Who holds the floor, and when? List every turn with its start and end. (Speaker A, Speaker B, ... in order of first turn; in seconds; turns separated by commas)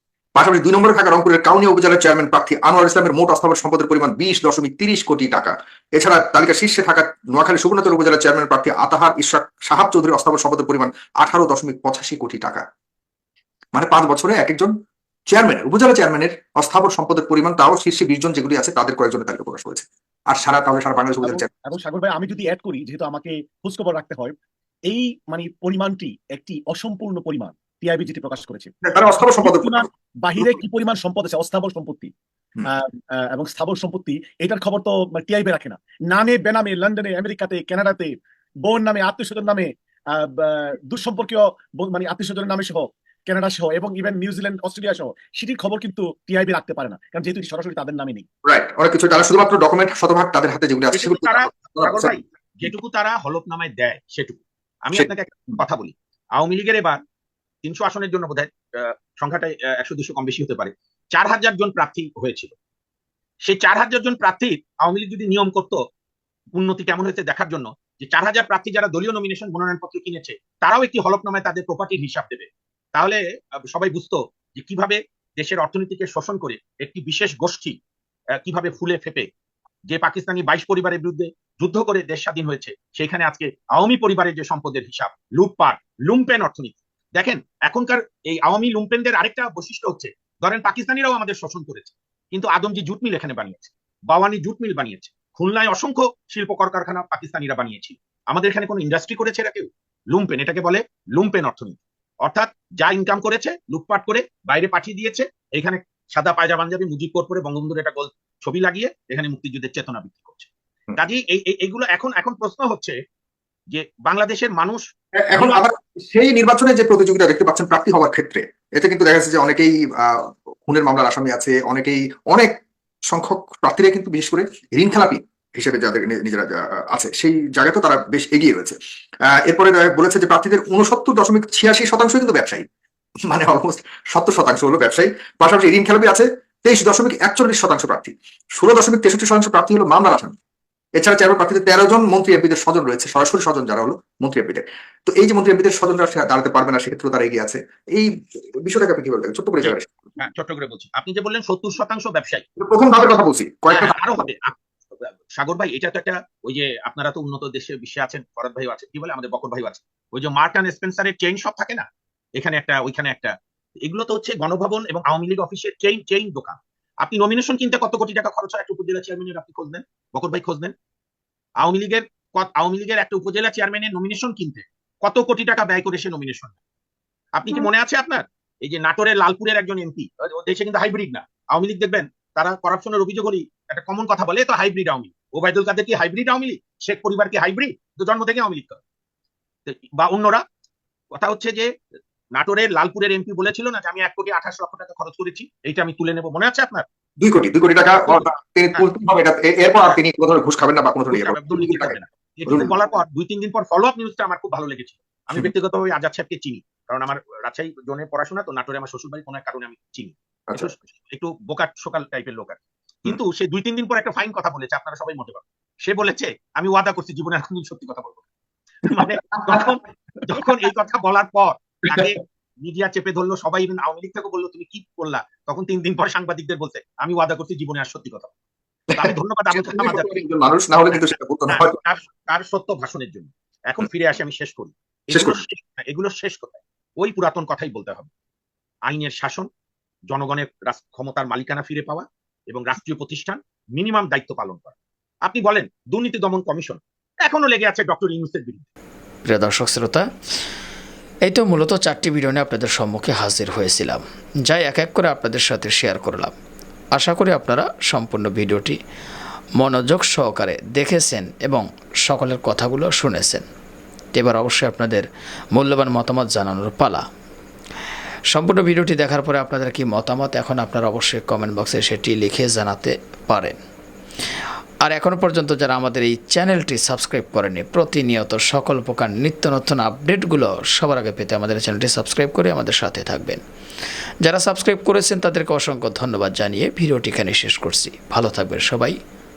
Speaker A: 0.3-12.6, Speaker A: 13.7-14.7, Speaker A: 15.3-21.4, Speaker B: 21.2-24.4, Speaker B: 24.9-32.1, Speaker A: 28.9-29.9, Speaker B: 32.7-38.1, Speaker B: 38.6-48.2, Speaker A: 48.4-52.1, Speaker C: 50.9-57.0, Speaker A: 54.9-55.5, Speaker C: 57.6-62.5, Speaker C: 63.5-65.8, Speaker C: 66.6-77.8, Speaker C: 78.4-79.3, Speaker C: 79.9-113.0, Speaker C: 113.7-114.8, Speaker A: 115.3-122.5, Speaker C: 115.4-115.6, Speaker A: 123.1-128.8, Speaker A: 129.3-132.6, Speaker A: 133.3-140.3, Speaker A: 140.9-148.1, Speaker A: 148.6-149.9, Speaker C: 149.6-152.4, Speaker A: 152.6-154.2, Speaker C: 153.7-154.6, Speaker C: 155.4-161.8, Speaker C: 162.4-163.3, Speaker C: 163.8-170.7, Speaker C: 171.6-176.6, Speaker C: 177.3-188.8, Speaker C: 189.7-190.4, Speaker C: 191.1-191.7, Speaker C: 192.3-196.8, Speaker A: 197.2-202.7, Speaker C: 197.9-198.8, Speaker C: 201.1-218.2, Speaker C: 218.8-228.3, Speaker A: 219.0-219.6, Speaker A: 228.9-231.8, Speaker C: 229.0-230.2, Speaker C: 231.5-238.1, Speaker A: 235.1-235.4, Speaker C: 238.9-239.4, Speaker C: 240.1-248.7, Speaker D: 249.3-250.0, Speaker D: 251.3-256.3, Speaker D: 256.9-258.8, Speaker D: 259.6-263.4, Speaker D: 264.1-267.0, Speaker D: 268.3-273.6, Speaker D: 274.8-283.4, Speaker D: 284.2-288.9